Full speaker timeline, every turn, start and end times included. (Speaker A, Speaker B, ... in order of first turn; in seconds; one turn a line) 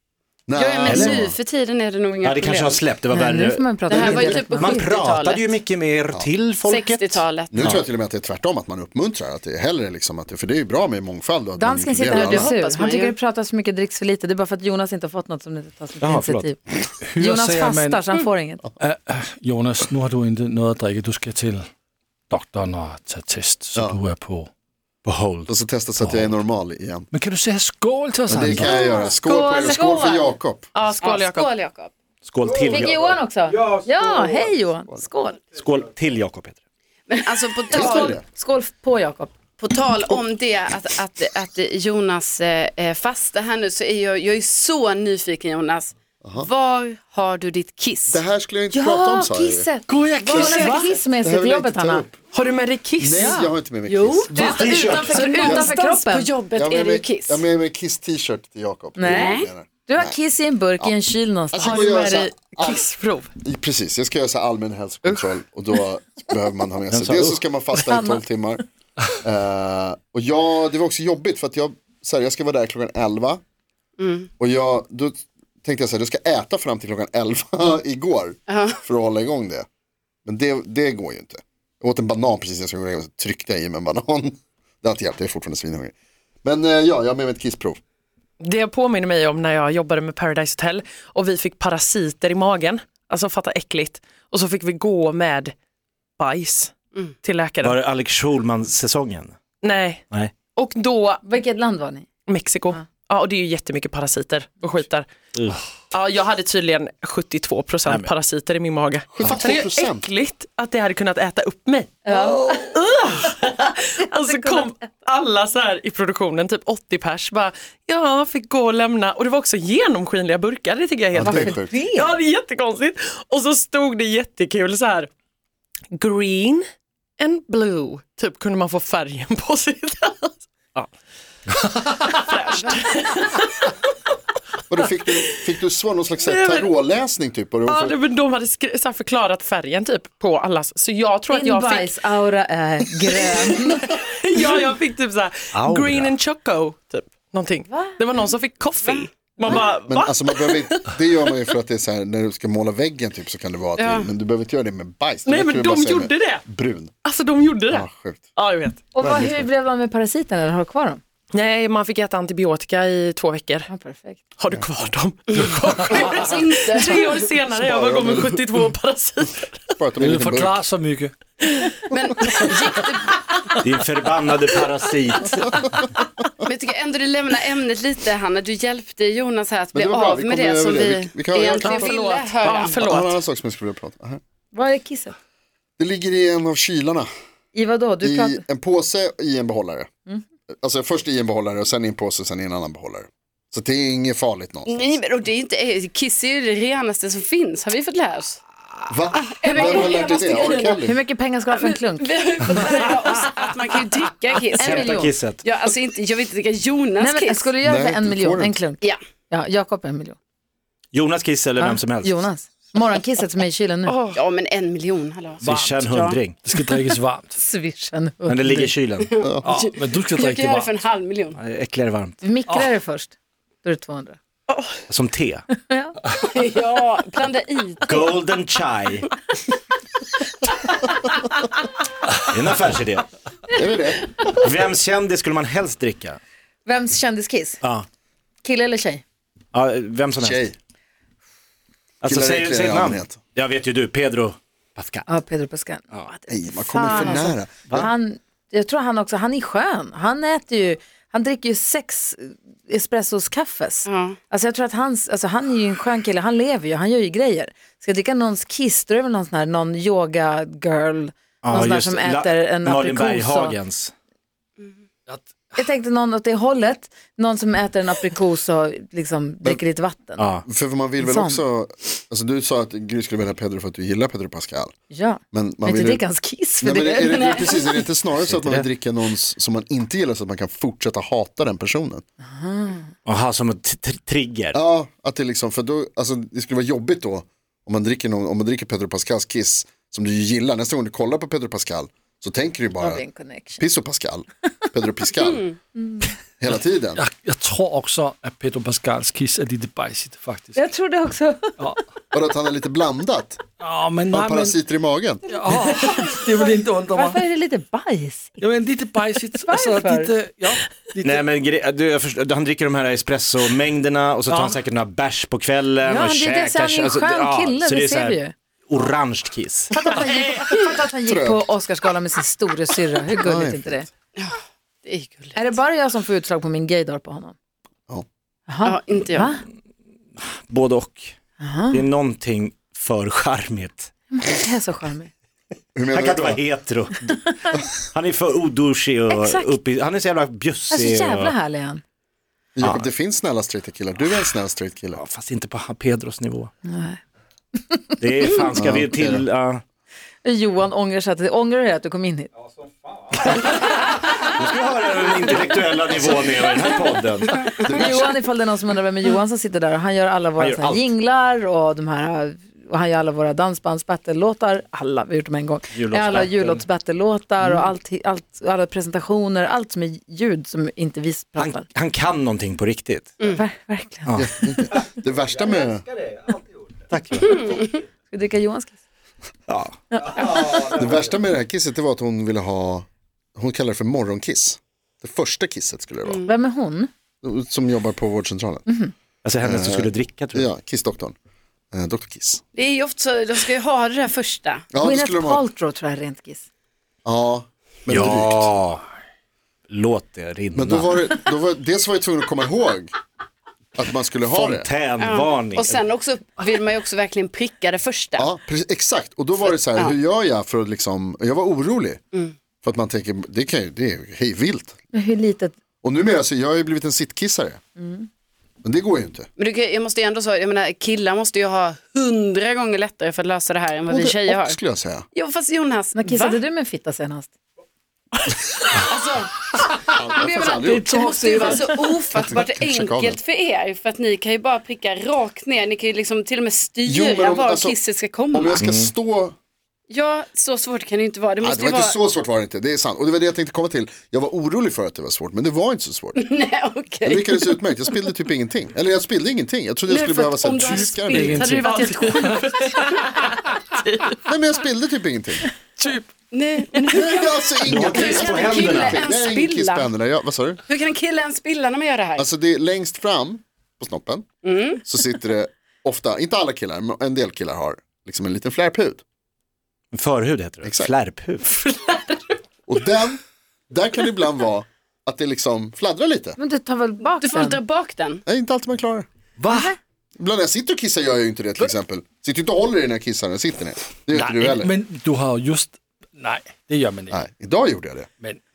Speaker A: 0.5-1.4
Speaker B: 0.5-2.8
Speaker C: 0.8-1.3
Speaker C: 2.2-7.8
Speaker D: 3.1-4.8
Speaker B: 3.9-5.5
Speaker B: 6.6-7.8
Speaker A: 7.5-12.5
Speaker D: 11.6-16.6
Speaker B: 12.1-13.1
Speaker C: 16.0-16.5
Speaker E: 17.0-18.0
Speaker D: 17.1-18.6
Speaker E: 18.8-21.7
Speaker E: 22.3-24.5
Speaker A: 23.7-24.0
Speaker C: 25.0-25.5
Speaker A: 25.5-27.1
Speaker E: 26.0-26.4
Speaker E: 27.1-28.9
Speaker A: 28.3-30.7
Speaker D: 28.6-30.3
Speaker F: 30.7-31.5
Speaker B: 31.0-31.9
Speaker C: 32.2-34.5
Speaker D: 32.6-35.4
Speaker C: 35.5-36.6
Speaker B: 37.1-38.2
Speaker A: 37.7-38.2
Speaker D: 37.7-39.3
Speaker B: 39.6-48.2
Speaker A: 46.2-46.5
Speaker A: 48.1-49.7
Speaker D: 48.7-52.0
Speaker E: 49.9-50.9
Speaker F: 50.5-50.9
Speaker A: 51.2-52.2
Speaker F: 52.3-53.5
Speaker A: 53.0-55.7
Speaker D: 53.2-56.3
Speaker C: 54.4-55.2
Speaker B: 55.0-57.4
Speaker A: 56.5-60.2
Speaker D: 59.0-62.3
Speaker B: 59.0-59.5
Speaker A: 61.5-62.8
Speaker F: 61.6-63.3
Speaker A: 63.4-68.6
Speaker F: 65.0-65.3
Speaker C: 66.9-67.4
Speaker D: 67.8-68.2
Speaker A: 69.2-73.4
Speaker B: 74.0-74.3
Speaker A: 74.4-79.7
Speaker B: 78.5-78.8
Speaker A: 80.2-85.9
Speaker A: 86.4-87.8
Speaker F: 88.4-95.5
Speaker F: 96.2-97.8
Speaker C: 97.6-99.3
Speaker F: 99.6-100.0
Speaker F: 100.5-101.2
Speaker D: 101.2-102.0
Speaker F: 102.3-105.1
Speaker C: 105.3-105.6
Speaker F: 105.9-125.1
Speaker A: 109.1-110.0
Speaker D: 112.0-112.8
Speaker D: 114.2-114.7
Speaker A: 121.1-121.8
Speaker D: 121.2-122.2
Speaker F: 125.9-126.6
Speaker F: 127.2-130.9
Speaker F: 132.2-133.7
Speaker A: 134.7-138.0
Speaker F: 135.1-135.4
Speaker F: 136.2-136.7
Speaker F: 137.7-142.0
Speaker D: 141.3-143.9
Speaker F: 143.1-150.9
Speaker C: 145.5-146.1
Speaker D: 147.7-148.0
Speaker B: 148.8-149.6
Speaker A: 149.4-156.9
Speaker B: 153.8-154.1
Speaker F: 155.2-156.4
Speaker F: 157.0-158.8
Speaker A: 157.7-158.2
Speaker D: 158.9-161.0
Speaker A: 159.0-159.4
Speaker F: 161.3-163.7
Speaker D: 163.7-164.2
Speaker F: 164.4-169.7
Speaker B: 165.3-167.4
Speaker A: 167.6-168.4
Speaker A: 169.8-170.6
Speaker E: 170.0-171.1
Speaker B: 171.9-173.3
Speaker C: 173.6-175.6
Speaker A: 175.4-175.7
Speaker B: 176.4-182.9
Speaker A: 179.7-181.9
Speaker F: 181.5-183.2
Speaker A: 182.7-184.2
Speaker D: 184.5-185.1
Speaker A: 185.8-187.1
Speaker D: 187.5-188.4
Speaker A: 188.0-189.9
Speaker A: 190.6-194.9
Speaker B: 194.7-198.4
Speaker A: 198.9-200.9
Speaker B: 199.2-200.8
Speaker D: 199.4-200.0
Speaker D: 200.8-202.1
Speaker B: 201.5-207.5
Speaker D: 204.6-205.1
Speaker C: 204.6-205.4
Speaker D: 207.0-210.2
Speaker A: 207.6-208.6
Speaker C: 210.9-212.2
Speaker D: 211.6-214.0
Speaker F: 213.9-214.2
Speaker B: 214.1-216.2
Speaker E: 215.4-215.8
Speaker C: 215.4-216.4
Speaker E: 216.4-217.4
Speaker D: 217.3-218.7
Speaker C: 218.3-219.1
Speaker B: 219.0-221.4
Speaker E: 219.4-220.8
Speaker C: 221.3-222.2
Speaker D: 222.2-224.2
Speaker F: 224.5-224.7
Speaker C: 224.9-225.4
Speaker D: 225.6-226.0
Speaker B: 226.1-228.1
Speaker C: 227.8-229.1
Speaker C: 232.2-233.1
Speaker A: 233.5-234.2
Speaker C: 234.2-236.2
Speaker D: 236.7-237.6
Speaker D: 238.4-239.0
Speaker C: 239.5-240.4
Speaker A: 240.2-240.5
Speaker C: 242.0-245.1
Speaker A: 242.0-243.2
Speaker D: 245.1-263.6
Speaker A: 246.3-247.9
Speaker B: 253.8-254.2
Speaker C: 261.4-263.9
Speaker E: 265.1-265.5
Speaker D: 265.6-270.3
Speaker C: 270.2-270.4
Speaker A: 270.4-274.7
Speaker D: 271.0-271.4
Speaker D: 274.9-277.7
Speaker A: 275.3-276.0
Speaker A: 276.6-282.0
Speaker B: 277.1-277.6
Speaker C: 278.3-278.7
Speaker D: 282.2-282.9
Speaker C: 283.1-284.6
Speaker A: 284.5-293.0
Speaker D: 292.8-293.6
Speaker A: 293.6-295.4
Speaker B: 295.2-295.6
Speaker D: 295.8-296.1
Speaker A: 296.4-297.0
Speaker E: 296.5-300.6
Speaker D: 300.5-301.5
Speaker A: 302.1-303.4
Speaker E: 303.6-304.6
Speaker A: 304.1-305.2
Speaker E: 305.3-307.2
Speaker D: 306.9-308.3
Speaker E: 308.4-311.2
Speaker D: 309.4-310.1
Speaker C: 311.0-319.7
Speaker E: 314.3-314.6
Speaker D: 315.8-318.3
Speaker D: 319.7-323.9
Speaker A: 321.1-321.4
Speaker A: 323.1-323.9
Speaker B: 324.1-325.4
Speaker D: 325.3-327.3
Speaker D: 328.5-329.4
Speaker B: 328.6-329.3
Speaker C: 330.2-331.1
Speaker D: 331.4-331.8
Speaker C: 331.7-333.9
Speaker D: 334.1-335.1
Speaker A: 335.7-336.4
Speaker C: 335.9-341.3
Speaker D: 339.1-339.5
Speaker D: 340.7-341.8
Speaker A: 342.6-345.0
Speaker C: 342.6-342.9
Speaker C: 344.9-346.5
Speaker D: 346.6-347.0
Speaker D: 347.7-347.9
Speaker C: 348.0-349.6
Speaker A: 348.5-349.2
Speaker D: 350.2-352.3
Speaker C: 353.1-357.6
Speaker D: 357.5-371.6
Speaker A: 357.6-358.0
Speaker C: 360.4-360.9
Speaker C: 365.7-366.6
Speaker C: 371.4-373.3
Speaker D: 373.4-374.2
Speaker C: 374.1-377.8
Speaker A: 374.1-375.9
Speaker B: 377.3-377.6
Speaker D: 378.1-378.8
Speaker C: 379.5-381.1
Speaker D: 379.9-380.6
Speaker A: 380.7-386.2
Speaker B: 386.0-386.3
Speaker D: 386.2-386.9
Speaker A: 387.2-388.6
Speaker D: 388.7-388.9
Speaker C: 389.2-390.5
Speaker A: 389.4-391.1
Speaker A: 391.7-392.4
Speaker B: 392.5-394.6
Speaker A: 394.7-395.4
Speaker D: 394.8-396.4
Speaker A: 397.0-398.5
Speaker C: 397.9-398.8
Speaker C: 399.7-401.1
Speaker A: 400.5-402.9
Speaker A: 403.8-404.7
Speaker C: 404.3-405.8
Speaker B: 405.0-408.3
Speaker A: 408.2-412.0
Speaker A: 412.6-414.8
Speaker D: 414.9-415.5
Speaker A: 415.8-417.6
Speaker D: 417.8-418.1
Speaker A: 418.6-419.3
Speaker B: 419.4-424.6
Speaker A: 424.0-425.1
Speaker B: 425.1-426.4
Speaker D: 425.9-427.3
Speaker F: 428.3-428.7
Speaker B: 428.7-429.4
Speaker A: 429.9-433.2
Speaker B: 430.0-438.6
Speaker F: 430.7-431.1
Speaker A: 436.8-437.8
Speaker A: 438.3-439.3
Speaker C: 438.6-438.9
Speaker B: 439.9-442.0
Speaker A: 441.4-446.2
Speaker B: 446.1-447.6
Speaker A: 447.0-451.6
Speaker B: 449.9-453.2
Speaker E: 450.6-452.8
Speaker F: 451.5-454.2
Speaker A: 454.2-455.4
Speaker F: 455.8-456.1
Speaker B: 456.3-459.9
Speaker F: 456.7-457.1
Speaker A: 456.9-460.6
Speaker C: 457.6-459.1
Speaker B: 460.7-462.3
Speaker A: 462.2-464.3
Speaker B: 464.4-464.8
Speaker A: 464.8-469.0
Speaker C: 469.9-471.7
Speaker A: 470.6-470.9
Speaker F: 471.6-472.3
Speaker A: 472.7-476.4
Speaker D: 476.4-477.6
Speaker B: 477.2-478.2
Speaker A: 478.2-479.1
Speaker E: 479.4-479.7
Speaker D: 479.5-479.8
Speaker A: 480.2-484.7
Speaker E: 484.1-487.2
Speaker A: 487.1-488.1